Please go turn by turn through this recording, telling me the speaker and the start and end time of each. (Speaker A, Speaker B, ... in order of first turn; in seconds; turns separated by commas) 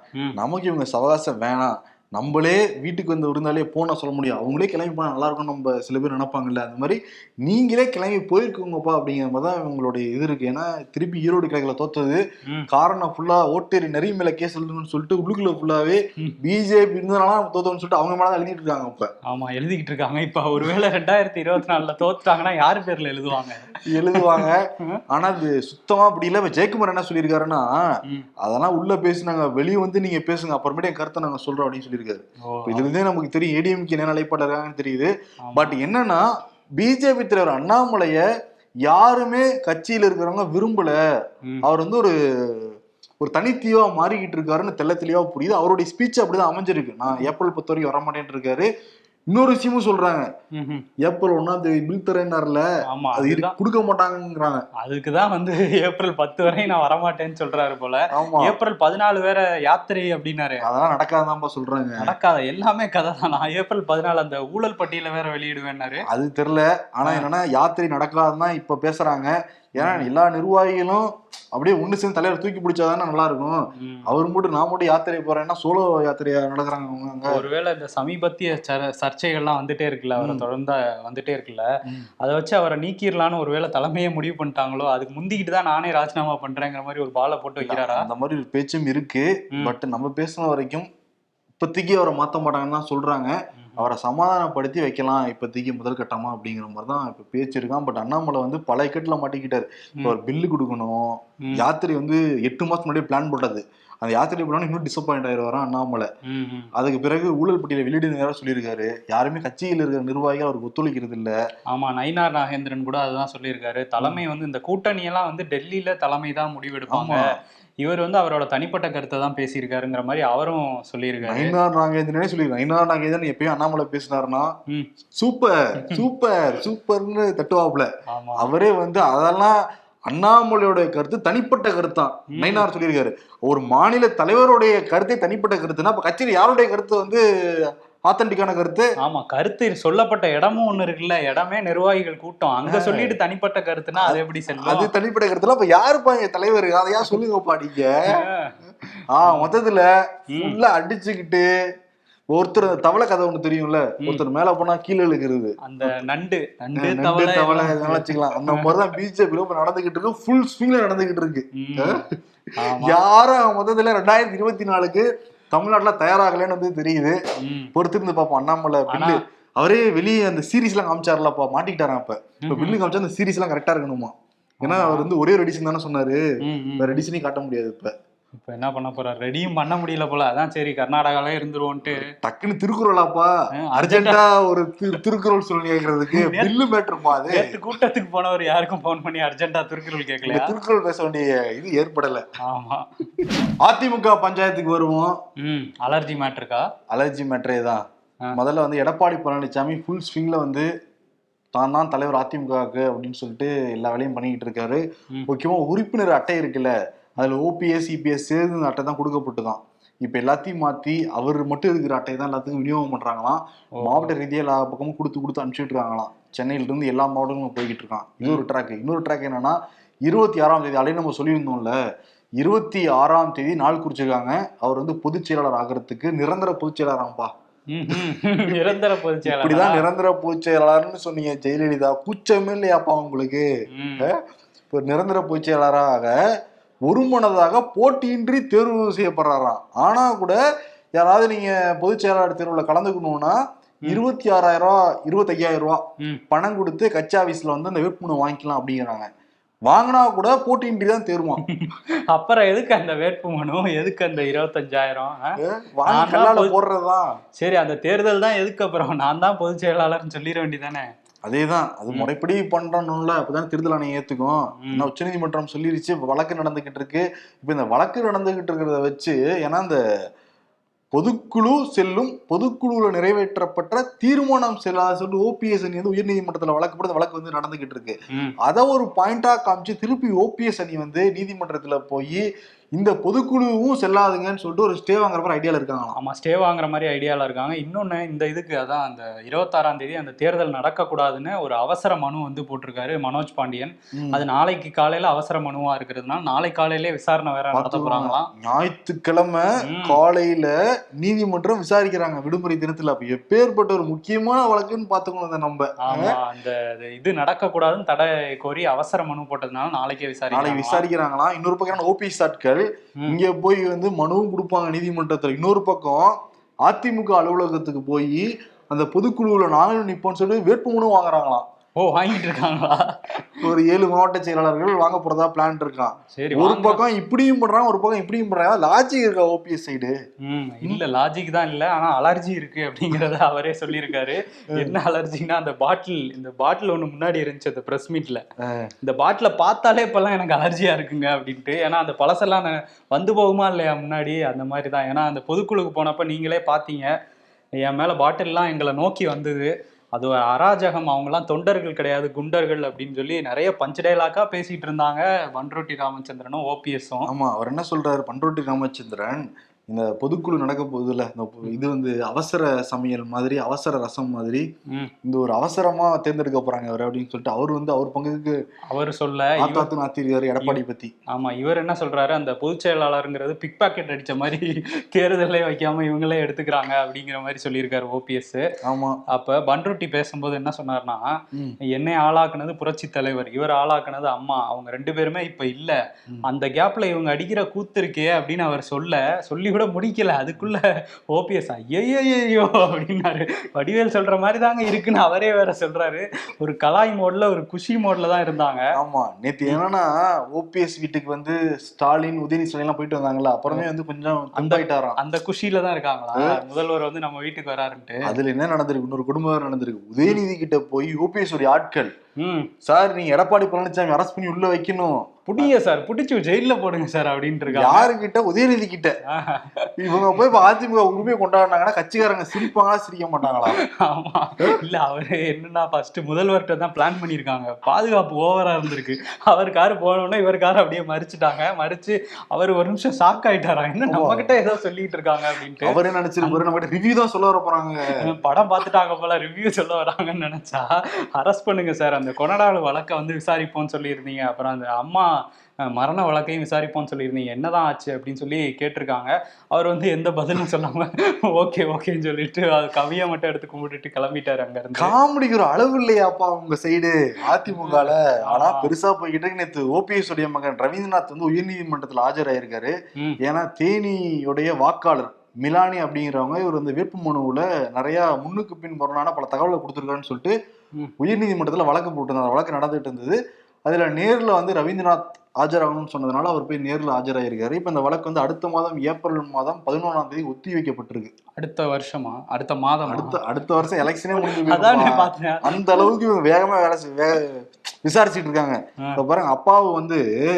Speaker A: 0.4-19.1, Speaker B: 19.3-25.0, Speaker A: 23.9-27.8, Speaker A: 28.4-36.3, Speaker B: 32.4-32.9, Speaker B: 35.5-35.8, Speaker A: 36.8-38.2, Speaker A: 38.9-41.0, Speaker A: 41.6-48.7, Speaker A: 49.3-50.3, Speaker B: 50.5-50.9, Speaker A: 51.0-54.7, Speaker B: 52.9-53.6, Speaker B: 54.8-60.6, Speaker A: 58.1-58.6, Speaker A: 60.6-62.1, Speaker B: 62.0-66.0, Speaker A: 66.1-77.4, Speaker B: 69.8-70.1, Speaker B: 73.8-74.1, Speaker B: 77.3-81.7, Speaker A: 80.2-80.5, Speaker B: 82.2-88.1, Speaker A: 87.6-90.9, Speaker A: 91.6-106.1, Speaker B: 106.2-106.7, Speaker A: 106.8-111.4, Speaker B: 111.7-117.3, Speaker A: 116.9-117.3, Speaker B: 117.8-121.5, Speaker A: 121.3-124.5, Speaker A: 125.2-137.2, Speaker B: 128.1-128.5, Speaker B: 132.3-132.7, Speaker A: 138.1-138.9, Speaker B: 139.0-144.9, Speaker A: 142.7-143.2, Speaker A: 144.0-148.2, Speaker B: 148.1-148.6, Speaker A: 149.1-151.5, Speaker B: 149.2-149.5, Speaker B: 150.3-150.6, Speaker A: 152.3-156.0, Speaker B: 155.6-158.8, Speaker A: 156.8-167.2, Speaker B: 161.6-162.0, Speaker B: 162.6-163.0, Speaker B: 167.4-167.7, Speaker A: 167.8-176.2, Speaker B: 168.9-169.2, Speaker B: 172.5-172.8, Speaker B: 174.6-175.1, Speaker B: 176.4-177.1, Speaker A: 176.8-177.9, Speaker B: 178.4-182.1, Speaker A: 181.9-187.6, Speaker B: 183.6-184.2, Speaker B: 186.1-186.6, Speaker B: 187.2-190.5, Speaker A: 190.2-192.2, Speaker B: 192.4-192.9, Speaker A: 193.6-195.2, Speaker B: 195.4-196.7, Speaker A: 196.9-200.7, Speaker A: 201.6-221.8, Speaker B: 213.8-214.1, Speaker A: 222.4-227.3, Speaker B: 227.7-229.8, Speaker A: 227.9-233.5, Speaker B: 233.7-234.1, Speaker A: 234.7-236.2, Speaker A: 236.9-240.4, Speaker A: 241.0-249.1, Speaker A: 249.7-251.4, Speaker B: 251.4-256.6, Speaker A: 255.4-257.1, Speaker B: 257.4-260.9, Speaker A: 261.3-269.8, Speaker B: 264.6-264.9, Speaker A: 270.9-282.3, Speaker A: 282.8-286.0, Speaker B: 286.0-298.3, Speaker A: 293.9-294.2, Speaker A: 297.5-306.2, Speaker B: 299.6-300.0, Speaker B: 305.8-310.9, Speaker A: 310.3-321.5, Speaker B: 321.8-323.5, Speaker A: 323.4-330.0, Speaker B: 326.1-326.8, Speaker B: 330.2-338.2, Speaker A: 338.4-338.7, Speaker B: 338.8-346.9, Speaker B: 347.6-357.1, Speaker A: 357.1-364.5, Speaker A: 365.1-368.4, Speaker B: 368.7-369.7, Speaker A: 369.4-370.9, Speaker B: 370.4-378.5, Speaker A: 378.6-379.0, Speaker B: 379.1-398.7, Speaker A: 398.8-405.0, Speaker B: 404.4-408.1, Speaker A: 406.1-406.4, Speaker A: 408.1-411.9, Speaker B: 412.2-412.5, Speaker A: 412.7-415.5, Speaker B: 415.3-417.9, Speaker A: 417.5-419.0, Speaker B: 419.1-420.4, Speaker A: 419.8-423.6, Speaker B: 423.3-436.4, Speaker A: 433.9-434.3, Speaker A: 435.6-438.1, Speaker B: 438.0-454.9, Speaker A: 454.8-470.4, Speaker B: 457.3-458.7, Speaker A: 471.0-481.1, Speaker B: 481.4-483.2, Speaker A: 482.9-490.0, Speaker B: 484.1-485.9